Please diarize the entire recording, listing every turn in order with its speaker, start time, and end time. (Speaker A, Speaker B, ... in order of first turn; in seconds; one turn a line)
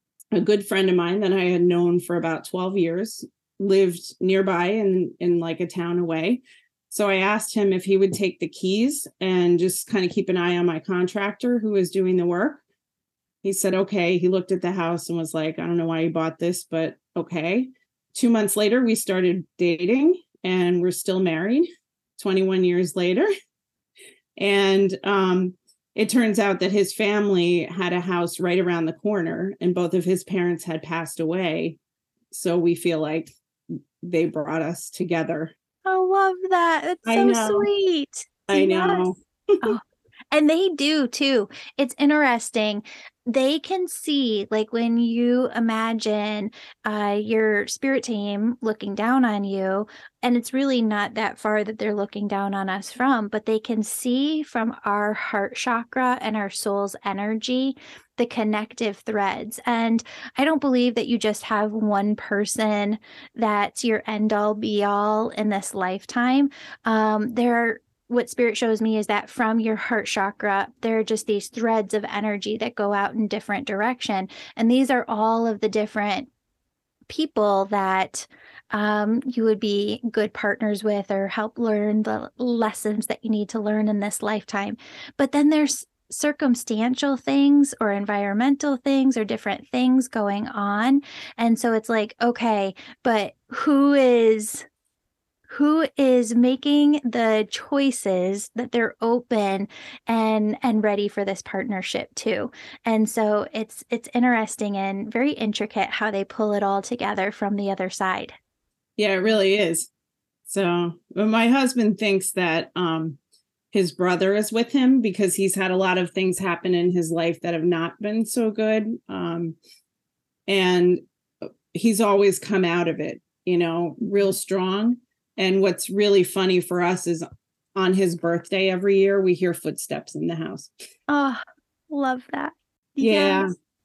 Speaker A: 0.3-12.6
Speaker A: 13.4-21.7
Speaker A: 22.2-23.3
Speaker A: 24.4-31.8
Speaker A: 32.3-33.3
Speaker A: 34.0-35.5
Speaker B: 35.9-76.3
Speaker A: 37.0-37.7
Speaker A: 38.5-39.6
Speaker B: 77.1-94.7
Speaker B: 95.5-108.3
Speaker A: 109.0-109.9
Speaker A: 110.5-113.2
Speaker A: 113.7-119.6
Speaker A: 120.5-121.0
Speaker A: 121.7-130.7
Speaker B: 131.1-133.5
Speaker A: 133.0-133.5